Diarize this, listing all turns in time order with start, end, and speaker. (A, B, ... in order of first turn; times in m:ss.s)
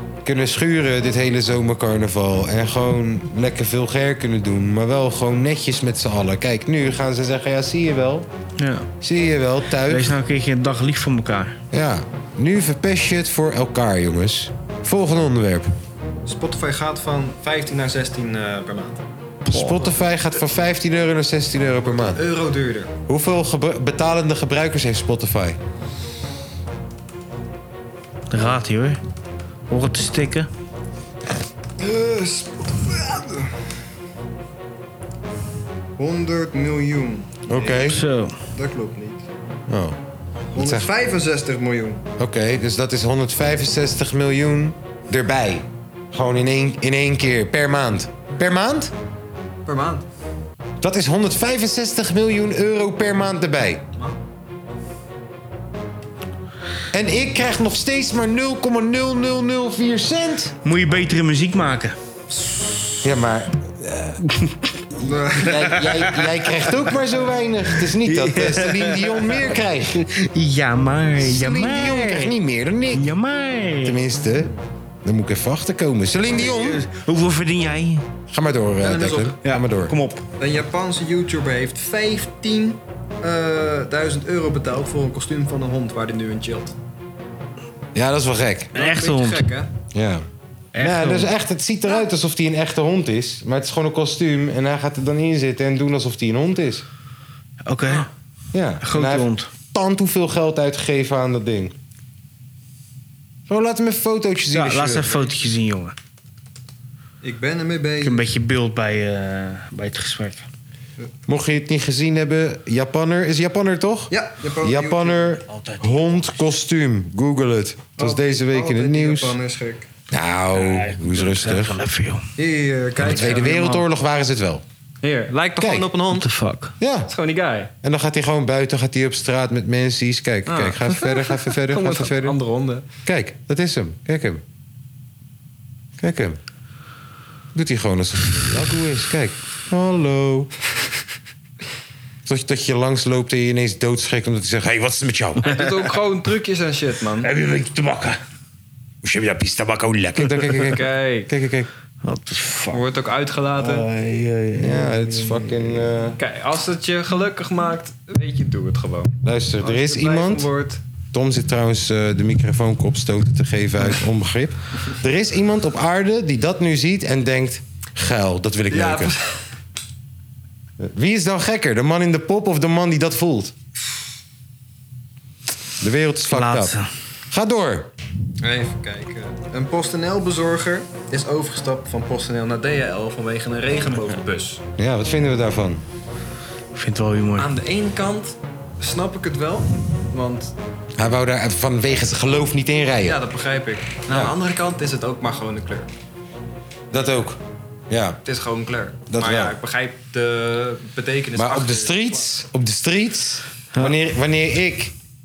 0:00.2-0:08.3 A
0:08.6-0:08.9 B
0:09.0-0:10.2 A
0:09.8-0:11.6 B
0:11.7-0:15.7 A
0:16.3-0:19.0 C
0:19.5-0:19.9 B
0:19.5-0:22.2 A
0:21.8-0:22.9 C
0:23.1-0:25.6 A
0:28.3-0:29.0 B
0:29.7-0:30.5 B
0:31.8-0:33.6 C
0:36.0-0:39.3 C
0:37.5-0:38.0 A
0:37.9-0:38.3 B
0:39.7-0:40.0 A
0:40.5-0:42.0 C
0:40.6-0:40.9 A
0:42.2-0:48.9 A
0:49.7-0:50.0 C
0:50.8-0:53.8 A
0:56.9-1:00.6 A
1:00.6-1:02.0 B
1:03.0-1:04.2 A
1:04.3-1:04.7 B
1:05.0-1:10.0 A
1:05.0-1:05.7 C
1:05.4-1:06.8 B
1:07.8-1:09.4 B
1:10.0-1:12.3 B
1:11.2-1:13.1 A
1:12.9-1:14.0 B
1:13.8-1:14.5 A
1:15.0-1:16.8 A
1:16.3-1:18.1 B
1:18.3-1:19.9 A
1:18.8-1:19.4 C
1:19.4-1:20.2 B
1:20.4-1:26.8 C
1:28.0-1:28.7 A
1:28.7-1:29.4 B
1:28.7-1:29.7 C
1:29.9-1:30.2 A
1:30.8-1:31.3 B
1:30.8-1:36.9 A
1:37.6-1:38.1 B
1:38.5-1:41.7 A
1:38.8-1:39.5 B
1:43.5-1:45.3 A
1:44.5-1:46.0 B
1:47.2-1:48.2 C
1:48.0-1:50.5 B
1:51.3-1:59.4 A
1:54.1-1:55.4 C
1:55.5-1:56.4 B
1:58.0-1:59.9 C
2:00.1-2:01.8 A
2:00.5-2:02.3 B
2:02.4-2:03.8 C
2:03.0-2:04.6 A
2:03.0-2:03.7 B
2:05.0-2:06.3 C
2:05.6-2:05.9 A
2:06.1-2:06.7 B
2:06.8-2:07.1 A
2:07.1-2:07.7 C
2:07.8-2:12.4 A
2:10.5-2:12.8 C
2:13.0-2:14.4 A
2:16.0-2:16.4 A
2:17.5-2:20.5 A
2:22.3-2:25.6 A
2:25.4-2:27.3 C
2:27.2-2:28.2 B
2:29.0-2:31.7 A
2:30.6-2:31.3 C
2:32.0-2:32.8 B
2:32.7-2:33.9 C
2:33.6-2:35.9 B
2:34.6-2:36.2 A
2:36.2-2:40.8 C
2:39.2-2:40.5 A
2:41.1-2:49.2 A
2:48.7-2:49.4 C
2:50.8-2:53.5 A
2:55.8-2:56.8 A
2:56.3-2:56.9 B
2:57.3-2:57.9 A
2:58.4-3:04.6 C
3:04.8-3:05.8 A
3:06.8-3:07.5 B
3:07.4-3:10.5 C
3:11.0-3:13.2 A
3:13.0-3:15.9 C
3:16.9-3:17.4 A
3:17.9-3:18.2 A
3:18.2-3:22.3 C
3:19.1-3:19.6 A
3:21.4-3:25.0 A